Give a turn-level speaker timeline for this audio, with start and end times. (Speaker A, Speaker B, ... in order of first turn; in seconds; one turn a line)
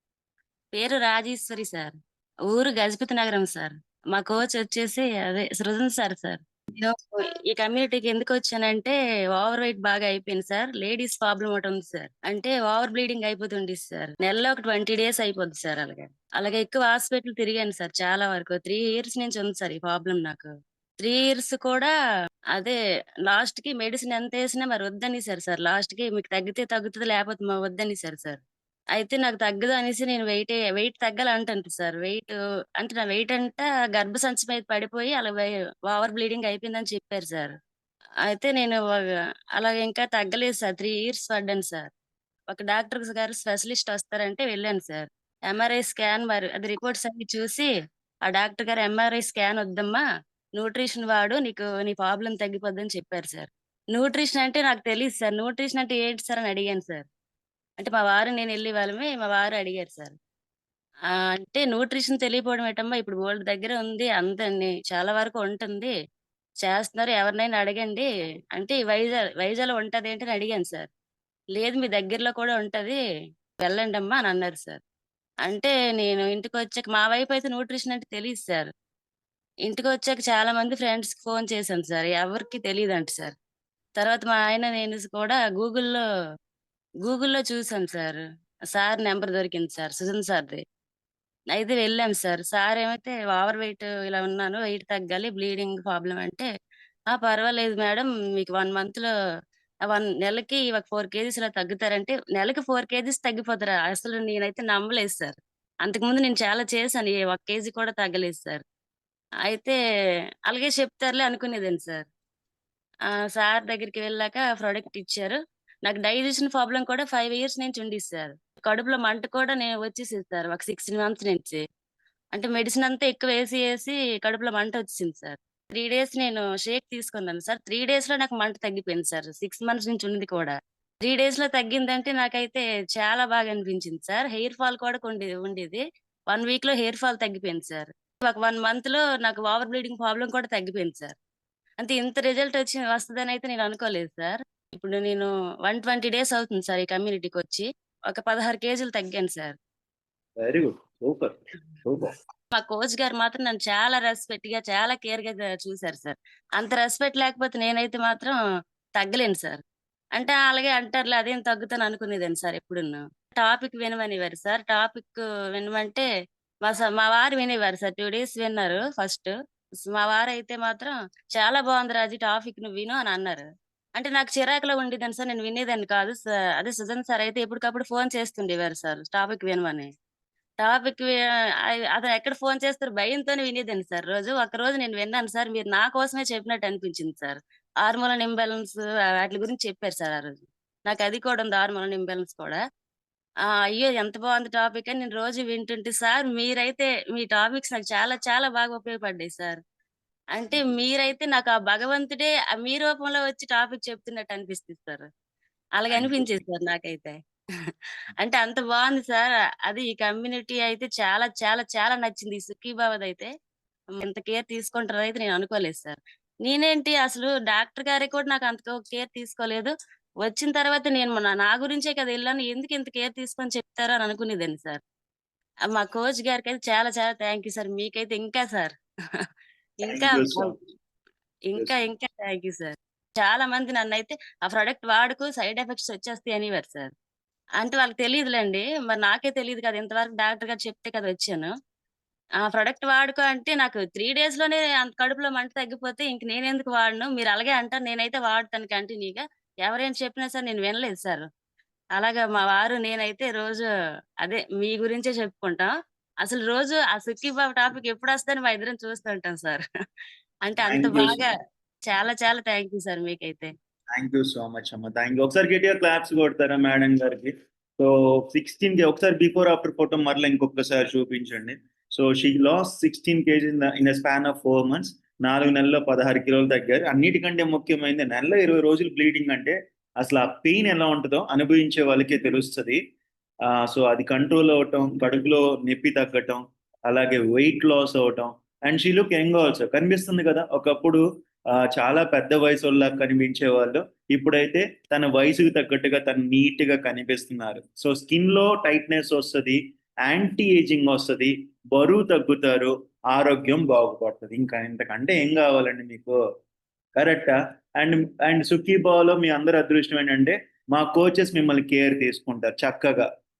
Speaker A: 0.7-1.9
Speaker A: 2.5-20.5
Speaker A: 21.0-21.9
Speaker A: 23.3-28.4
Speaker A: 28.9-37.5
Speaker A: 38.3-38.8
Speaker A: 39.5-41.9
Speaker A: 42.5-47.7
Speaker A: 48.2-50.0
Speaker A: 50.6-57.1
Speaker A: 57.8-60.1
Speaker A: 61.3-65.9
Speaker A: 66.6-70.9
Speaker A: 71.6-73.0
Speaker A: 73.6-74.8
Speaker A: 75.4-78.7
Speaker A: 79.7-83.3
Speaker A: 84.0-86.0
Speaker A: 87.0-88.2
Speaker A: 88.7-90.6
Speaker A: 91.5-96.5
Speaker A: 97.1-99.1
Speaker A: 99.9-108.6
Speaker A: 109.5-109.8
Speaker A: 110.5-112.0
Speaker A: 113.3-121.6
Speaker A: 122.3-141.1
Speaker A: 141.8-149.5
Speaker B: 150.4-151.3
Speaker B: 151.8-152.1
Speaker A: 152.5-158.3
Speaker A: 159.0-159.6
Speaker A: 160.2-166.0
Speaker A: 166.6-169.3
Speaker A: 169.9-173.4
Speaker A: 174.0-179.9
Speaker A: 180.6-181.1
Speaker A: 181.7-192.6
Speaker A: 193.7-199.6
Speaker A: 200.4-205.0
Speaker A: 205.8-207.1
Speaker B: 205.9-206.4
Speaker A: 208.2-213.3
Speaker A: 214.0-219.7
Speaker A: 220.2-224.8
Speaker A: 225.7-228.7
Speaker A: 229.8-230.5
Speaker B: 229.8-230.6
Speaker A: 231.5-236.9
Speaker B: 231.5-231.8
Speaker A: 237.6-241.5
Speaker A: 242.5-251.2
Speaker A: 251.9-253.6
Speaker A: 254.2-255.7
Speaker A: 256.2-259.6
Speaker A: 260.4-261.3
Speaker B: 260.6-261.3
Speaker A: 261.9-263.5
Speaker B: 263.9-282.8
Speaker B: 283.7-291.0
Speaker B: 291.7-306.1
Speaker B: 306.9-313.1